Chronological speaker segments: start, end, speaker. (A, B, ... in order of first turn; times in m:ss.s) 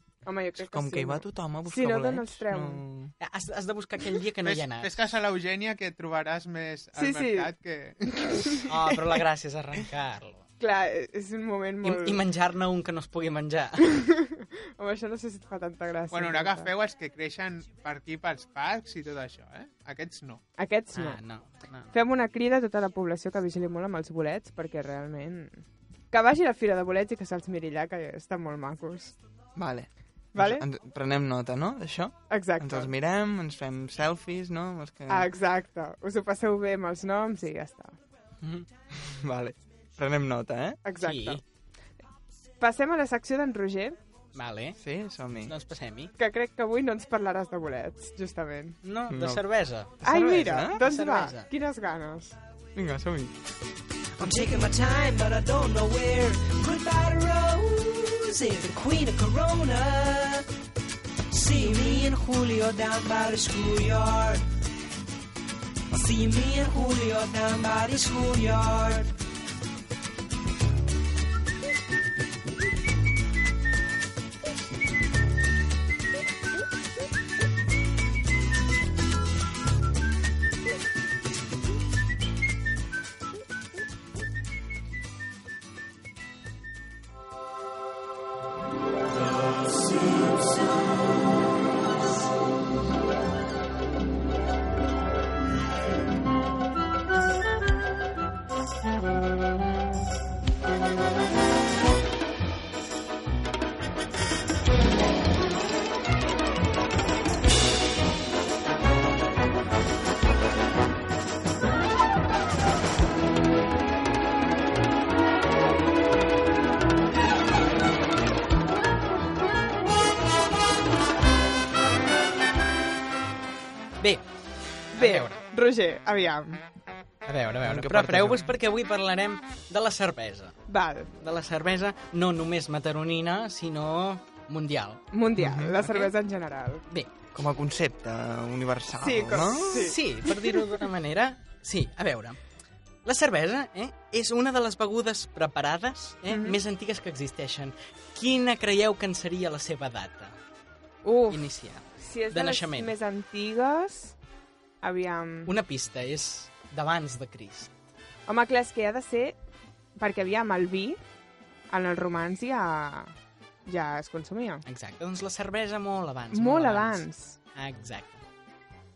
0:00.2-0:02.8 A
0:00.7-0:03.1 B
0:03.2-0:05.1 C
0:04.4-0:08.6 D
0:07.0-0:07.5 A
0:08.1-0:08.7 A
0:08.7-0:10.4 C
0:10.6-0:12.2 A
0:11.8-0:14.0 C
0:13.8-0:16.7 A
0:16.1-0:20.4 D
0:20.6-0:21.2 A
0:21.0-0:21.9 C
0:21.9-0:25.6 A
0:26.1-0:29.2 A
0:29.6-0:35.3 B
0:30.4-0:30.7 A
0:32.3-0:32.9 A
0:35.1-0:38.0 A
0:38.4-0:38.7 C
0:38.9-0:40.8 B
0:40.8-0:41.4 A
0:41.0-0:41.4 C
0:42.6-0:44.0 A
0:44.3-0:44.8 C
0:44.8-0:45.5 B
0:45.5-0:46.1 C
0:46.2-0:48.8 A
0:48.8-0:50.0 C
0:49.1-0:49.4 B
0:50.0-0:50.8 B
0:50.0-0:52.4 A
0:50.7-0:51.4 C
0:52.8-0:53.4 B
0:54.2-1:00.5 E
1:01.3-1:04.4 E
1:05.9-1:09.1 E
2:04.0-2:04.2 C
2:04.9-2:05.4 C
2:05.0-2:06.6 A
2:07.3-2:10.6 C
2:07.6-2:08.5 B
2:10.7-2:11.1 A
2:11.2-2:15.1 C
2:15.1-2:16.8 A
2:15.4-2:15.8 B
2:15.8-2:16.1 C
2:17.3-2:20.0 B
2:19.0-2:20.7 A
2:19.7-2:22.4 C
2:23.0-2:30.4 C
2:26.3-2:26.6 A
2:31.0-2:31.4 A
2:31.3-2:32.9 C
2:32.0-2:34.2 A
2:34.8-2:35.5 A
2:35.5-2:37.7 C
2:38.3-2:39.4 A
2:40.0-2:41.0 A
2:41.7-2:43.2 A
2:43.7-2:44.6 A
2:44.7-2:47.0 C
2:46.3-2:47.4 A
2:47.6-2:48.2 C